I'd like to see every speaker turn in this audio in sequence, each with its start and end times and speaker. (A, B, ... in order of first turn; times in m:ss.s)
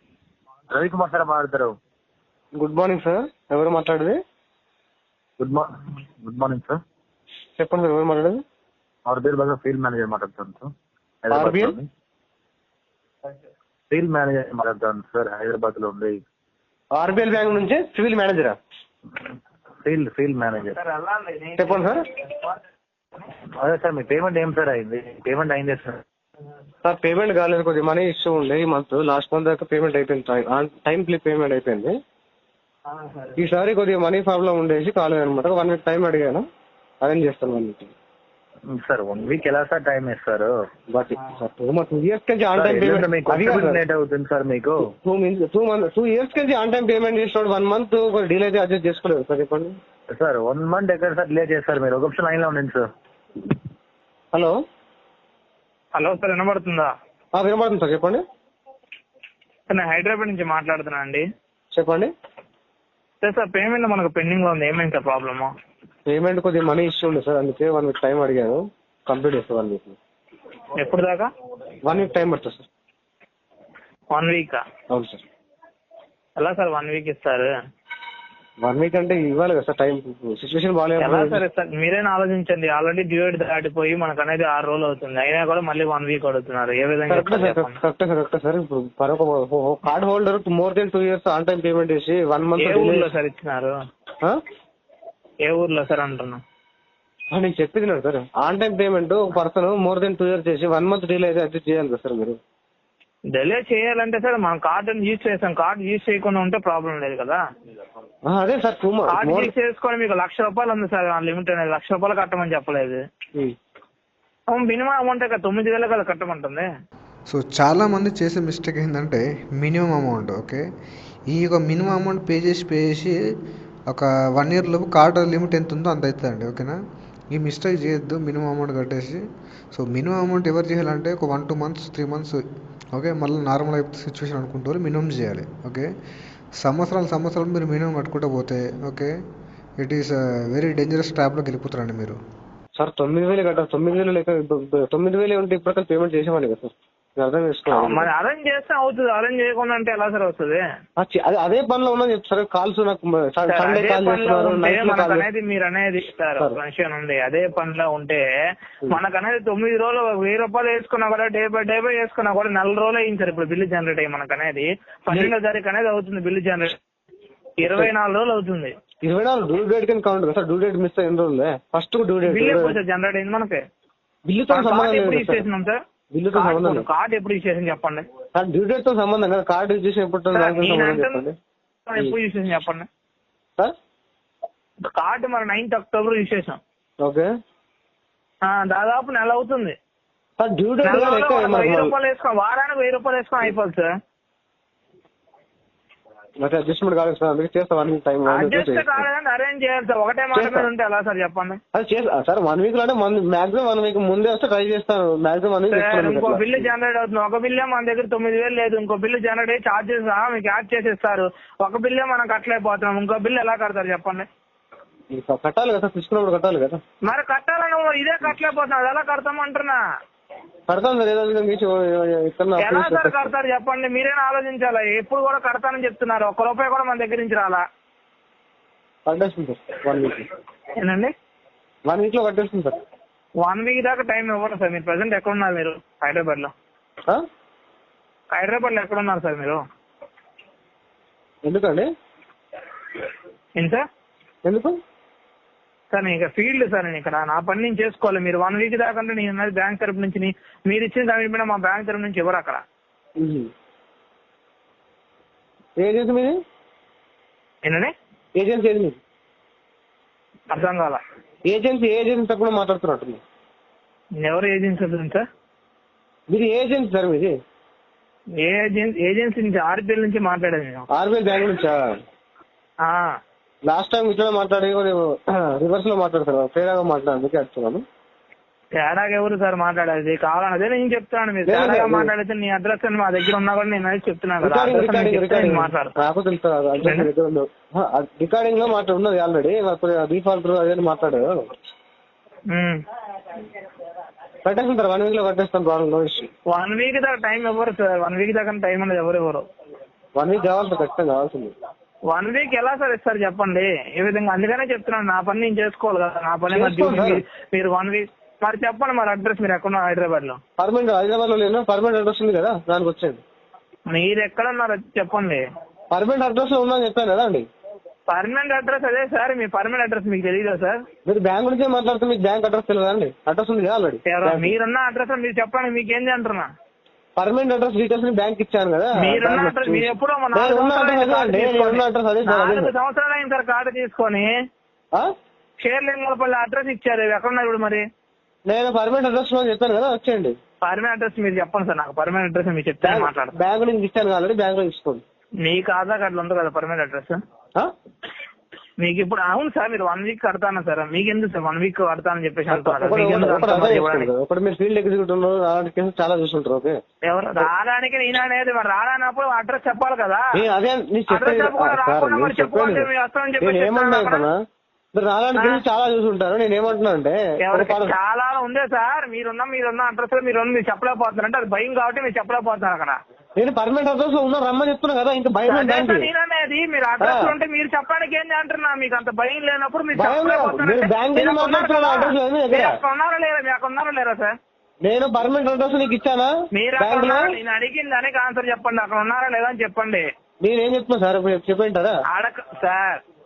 0:00.7-0:01.7 A
0:02.6-0:04.2 B
0:05.4-0:05.7 A
0:06.2-0:06.8 A
0:07.6-0:08.4 B
0:09.0-0:10.7 A
0:11.2-0:11.9 A
0:11.3-0:11.8 B
0:13.9-0:16.2 A
0:16.9-0:18.6 B
0:19.8-0:20.8 A
0:20.7-0:22.0 C
0:21.6-0:22.0 B
0:23.6-0:26.0 A
0:26.8-0:31.9 B
0:32.9-0:33.4 C
0:33.4-0:36.5 B
0:37.0-0:37.9 B
0:38.7-0:40.5 A
0:40.9-0:43.8 B
0:42.5-0:44.9 A
0:44.8-0:49.7 B
0:50.1-0:52.9 A
0:55.9-0:56.9 C
0:57.3-0:58.2 B
0:59.7-1:01.2 C
1:01.7-1:02.1 B
1:03.2-1:05.5 C
1:06.1-1:10.0 B
1:10.8-1:11.3 C
1:11.8-1:12.7 B
1:14.1-1:14.6 C
1:14.9-1:15.2 B
1:16.4-1:17.5 C
1:18.6-1:21.4 B
1:21.0-1:27.8 C
1:27.1-1:33.1 B
1:32.6-1:33.8 C
1:35.4-1:36.4 C
1:37.3-1:42.4 B
1:43.3-1:47.4 C
1:48.3-1:49.5 B
1:49.1-1:53.0 C
1:54.5-1:56.7 C
1:57.3-2:00.6 D
2:01.3-2:03.2 D
2:03.9-2:06.8 D
2:07.3-2:09.2 D
2:09.7-2:12.4 D
2:12.9-2:15.9 D
2:16.6-2:19.1 D
2:19.8-2:22.2 D
2:22.8-2:28.1 B
2:27.7-2:30.6 C
2:31.0-2:35.2 B
2:33.5-2:38.2 C
2:38.9-2:46.8 C
2:47.6-2:48.7 C
2:47.6-2:47.9 B
2:49.0-2:52.8 B
2:52.2-2:53.6 C
2:54.3-2:55.4 B
2:54.5-2:55.8 C
2:56.1-2:56.8 B
2:56.3-2:58.0 C
2:58.3-3:01.4 B
3:00.3-3:01.2 C
3:01.8-3:02.9 C
3:04.9-3:06.6 C
3:07.0-3:07.3 B
3:08.4-3:09.8 C
3:10.4-3:11.9 B
3:10.8-3:13.9 C
3:16.4-3:19.0 B
3:18.3-3:21.6 C
3:20.3-3:20.7 B
3:21.7-3:26.7 B
3:25.7-3:34.3 C
3:35.1-3:36.8 B
3:37.0-3:39.8 C
3:40.7-3:43.3 B
3:42.6-3:47.6 C
3:49.1-3:50.3 B
3:50.8-3:51.1 C
3:51.8-3:52.8 B
3:53.4-3:56.5 C
3:58.3-3:59.6 C
4:01.4-4:01.9 B
4:03.6-4:03.8 C
4:04.4-4:04.7 B
4:05.9-4:12.6 C
4:13.2-4:13.5 B
4:15.8-4:16.4 B
4:17.6-4:17.9 C
4:18.4-4:19.0 B
4:20.5-4:21.0 C
4:21.5-4:23.2 B
4:24.2-4:25.2 C
4:26.3-4:27.3 B
4:28.4-4:30.8 C
4:30.9-4:31.8 B
4:32.8-4:33.1 C
4:33.7-4:37.8 B
4:38.8-4:45.9 C
4:41.5-4:42.1 B
4:44.4-4:51.4 B
4:46.8-4:47.1 C
4:52.5-4:52.8 C
4:54.4-4:56.3 B
4:56.5-4:59.4 C
5:00.2-5:01.5 B
5:02.1-5:10.4 C
5:06.5-5:07.2 B
5:10.6-5:13.2 B
5:13.9-5:15.4 C
5:15.9-5:17.4 B
5:18.1-5:20.8 C
5:21.0-5:24.5 B
5:24.0-5:26.5 C
5:27.2-5:32.7 B
5:29.0-5:34.4 C
5:35.6-5:37.8 C
5:38.5-5:40.4 B
5:40.6-5:43.3 C
5:42.8-5:45.0 B
5:45.4-5:47.2 C
5:48.8-5:54.1 C
5:52.5-5:56.8 B
5:57.0-6:00.2 C
6:00.4-6:02.9 B
6:01.1-6:04.3 C
6:03.4-6:04.3 B
6:04.9-6:07.9 B
6:05.4-6:05.6 C
6:07.4-6:13.0 C
6:13.4-6:16.1 B
6:15.4-6:24.3 C
6:17.0-6:17.3 B
6:20.0-6:22.7 B
6:24.8-6:27.3 B
6:26.5-6:30.0 C
6:30.4-6:32.0 B
6:32.1-6:33.0 C